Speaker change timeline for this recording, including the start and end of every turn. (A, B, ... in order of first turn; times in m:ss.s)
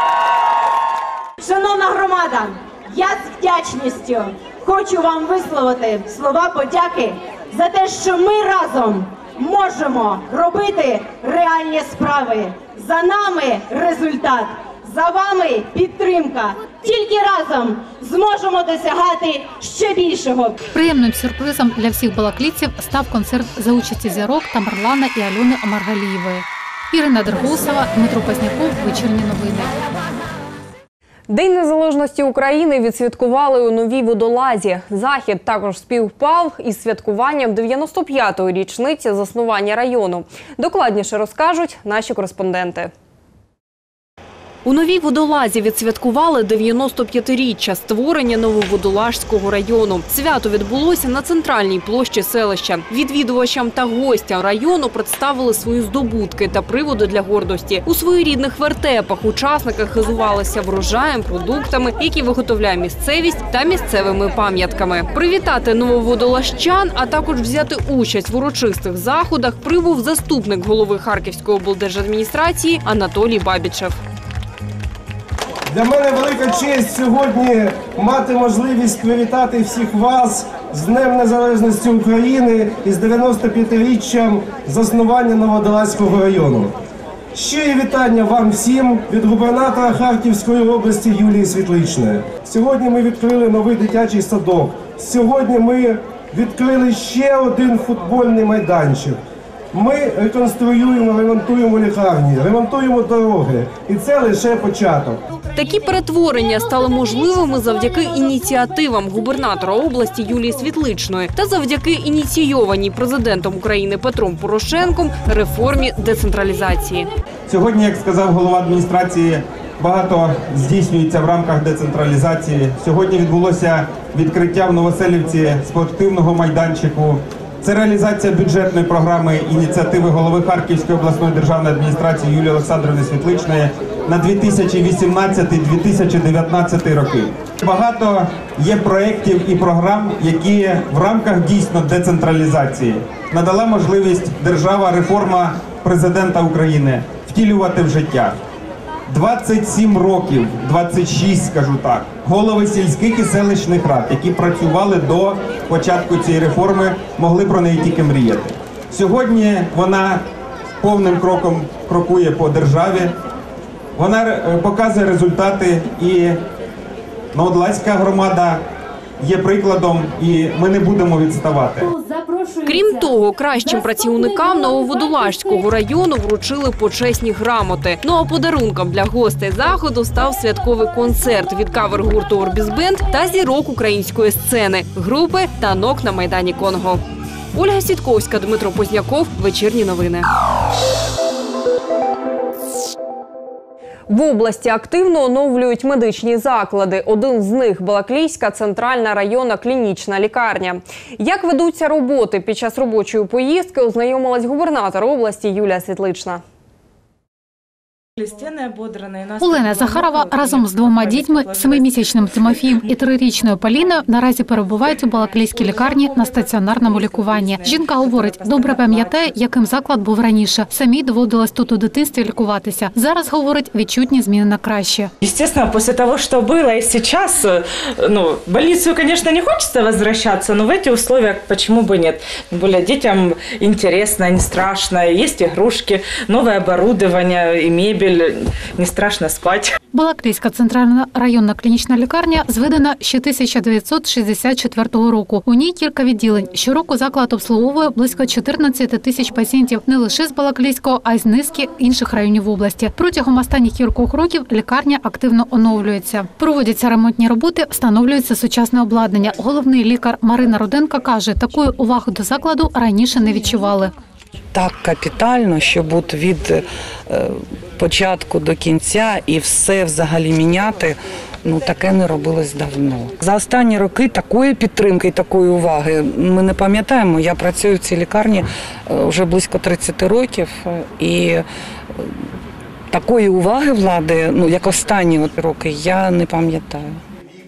0:01.4-0:20.6 A
0:20.7-0:29.7 B
0:31.3-0:42.9 C
0:44.6-1:14.0 C
1:15.7-1:26.8 D
1:27.3-1:39.2 D
1:39.7-1:45.2 D
1:45.6-1:57.1 C
1:57.5-2:28.4 E
2:29.1-2:40.2 E
2:40.8-2:43.1 E
2:44.0-2:46.4 E
2:47.3-2:48.6 E
2:49.2-2:51.9 E
2:52.6-3:07.0 C
3:07.5-3:10.3 C
3:14.1-3:26.4 C
3:28.2-3:31.9 F
3:29.4-3:45.1 B
3:45.2-3:59.7 F
3:59.9-4:23.9 B
4:24.5-4:41.4 G
4:42.9-4:47.0 G